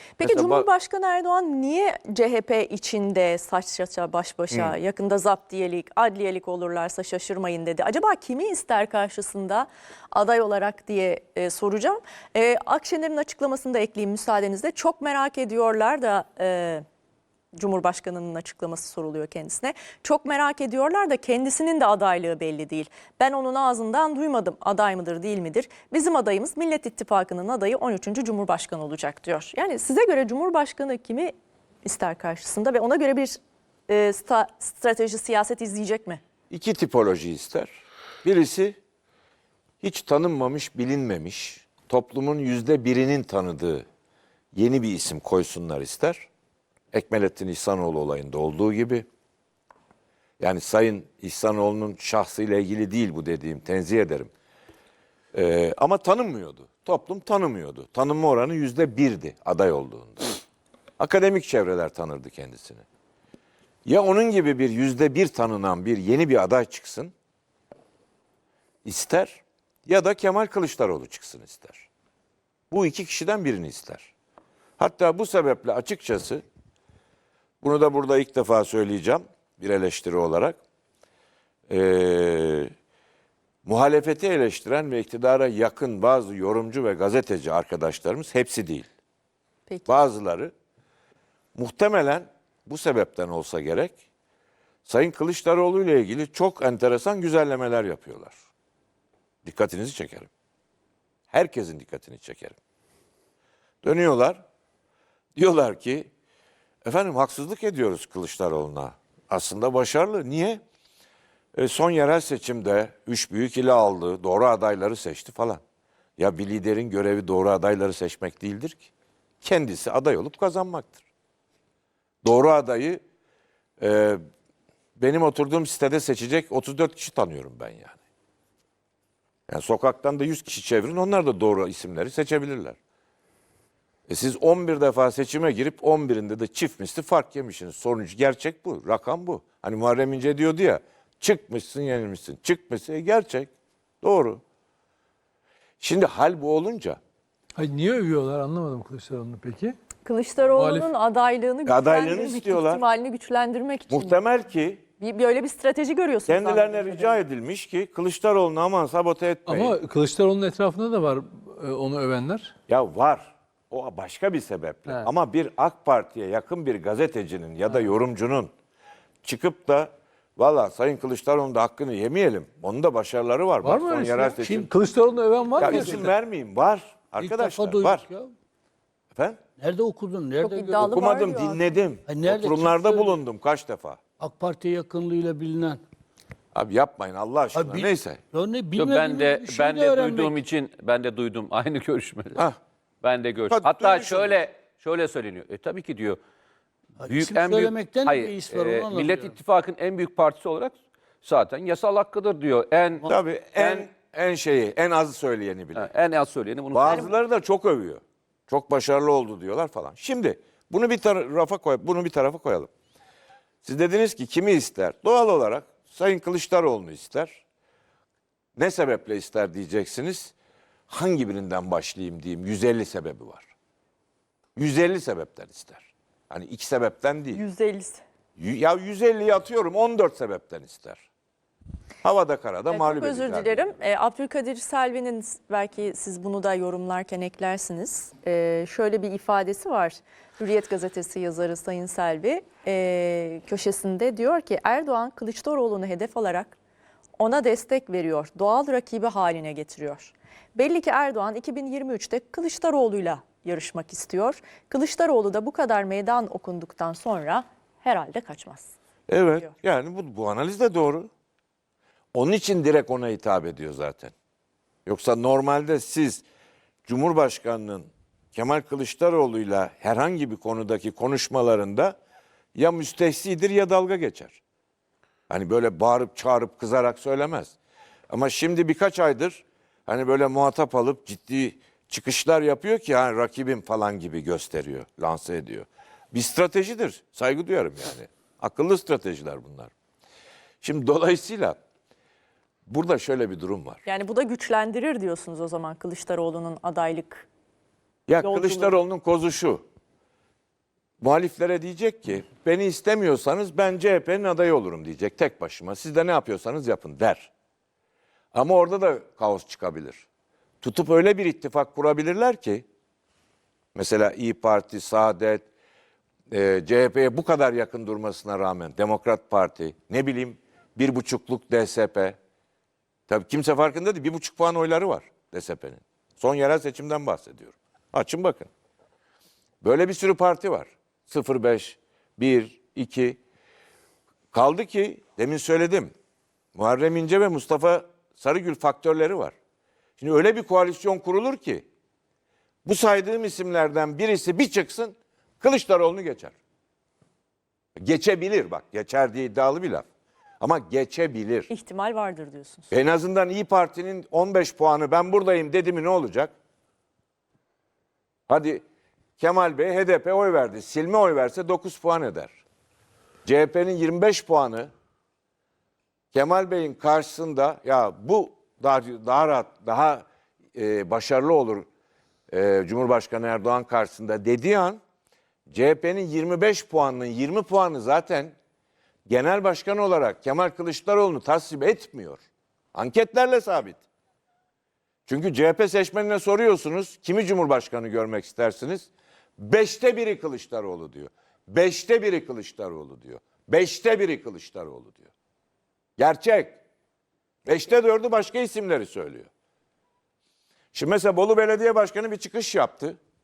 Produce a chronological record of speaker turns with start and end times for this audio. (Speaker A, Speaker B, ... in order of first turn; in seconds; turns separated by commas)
Speaker A: 0.2-16.8, Speaker B: 0.2-0.7, Speaker A: 17.5-33.4, Speaker A: 33.9-36.2, Speaker B: 36.5-38.8, Speaker B: 39.8-43.9, Speaker B: 44.5-46.3, Speaker B: 46.9-49.0, Speaker B: 50.4-54.3, Speaker B: 55.3-60.3, Speaker B: 61.0-62.8, Speaker B: 63.8-67.1, Speaker B: 68.8-71.9, Speaker B: 72.7-74.1, Speaker B: 74.8-76.4, Speaker B: 77.6-80.6, Speaker B: 81.7-82.7, Speaker B: 83.6-88.9, Speaker B: 89.9-90.5, Speaker B: 91.5-93.9, Speaker B: 94.8-98.3, Speaker B: 99.4-100.3, Speaker B: 101.3-102.6, Speaker B: 103.8-104.4, Speaker B: 105.3-106.1, Speaker B: 106.8-110.6, Speaker B: 111.5-115.6, Speaker B: 116.2-118.9, Speaker B: 119.4-121.0, Speaker B: 122.2-123.0, Speaker B: 123.8-124.2, Speaker B: 125.0-128.0, Speaker B: 129.5-132.8, Speaker B: 134.1-143.5, Speaker B: 144.0-144.4, Speaker B: 145.8-147.0, Speaker C: 147.5-149.8, Speaker A: 150.0-154.2, Speaker C: 150.5-150.9, Speaker B: 151.6-152.8, Speaker B: 153.9-154.8, Speaker A: 155.0-157.2, Speaker B: 156.3-159.8, Speaker C: 159.4-162.6, Speaker B: 162.7-168.5, Speaker B: 169.2-174.7, Speaker C: 173.6-176.1, Speaker B: 175.6-178.1, Speaker D: 175.6-176.0, Speaker D: 177.2-178.3, Speaker B: 179.1-179.4, Speaker D: 179.6-180.9, Speaker A: 180.4-181.6, Speaker B: 180.8-184.0, Speaker D: 182.1-183.2, Speaker D: 184.2-185.8, Speaker B: 186.5-188.2, Speaker D: 187.5-190.4, Speaker E: 188.7-192.4, Speaker E: 193.0-196.2, Speaker B: 193.5-194.4, Speaker D: 197.0-199.3, Speaker E: 197.1-203.0, Speaker B: 203.1-205.9, Speaker E: 203.6-203.9, Speaker E: 205.8-207.1, Speaker B: 206.7-212.7, Speaker B: 213.6-217.4, Speaker B: 218.6-220.3, Speaker B: 220.9-223.5, Speaker B: 224.6-227.4, Speaker A: 227.3-228.0, Speaker B: 228.4-231.1, Speaker B: 232.0-233.7, Speaker A: 232.7-246.6, Speaker A: 247.2-258.7, Speaker B: 259.1-261.1, Speaker B: 262.1-264.1, Speaker B: 264.9-266.2, Speaker B: 266.8-272.0, Speaker B: 272.5-274.4, Speaker B: 275.3-277.6, Speaker B: 278.1-289.7, Speaker B: 290.6-291.6, Speaker B: 292.7-293.8, Speaker A: 293.8-297.3, Speaker B: 298.1-299.6, Speaker A: 298.2-298.8, Speaker B: 301.0-307.3, Speaker B: 308.3-310.1, Speaker B: 310.6-312.6, Speaker B: 313.7-315.4, Speaker B: 316.3-322.2, Speaker B: 323.1-328.5, Speaker B: 329.6-333.2, Speaker B: 334.3-335.9, Speaker B: 336.5-339.3, Speaker B: 340.0-341.6, Speaker B: 342.6-346.3, Speaker B: 347.8-349.9, Speaker B: 350.4-351.5, Speaker A: 351.5-352.7, Speaker B: 352.7-356.3, Speaker B: 358.3-358.6, Speaker B: 359.2-362.4, Speaker B: 363.2-364.7, Speaker B: 366.1-371.7, Speaker B: 372.3-374.8, Speaker B: 375.5-378.3, Speaker B: 379.1-383.8, Speaker B: 385.1-395.1, Speaker B: 396.0-396.6, Speaker B: 397.4-399.3, Speaker B: 400.7-403.0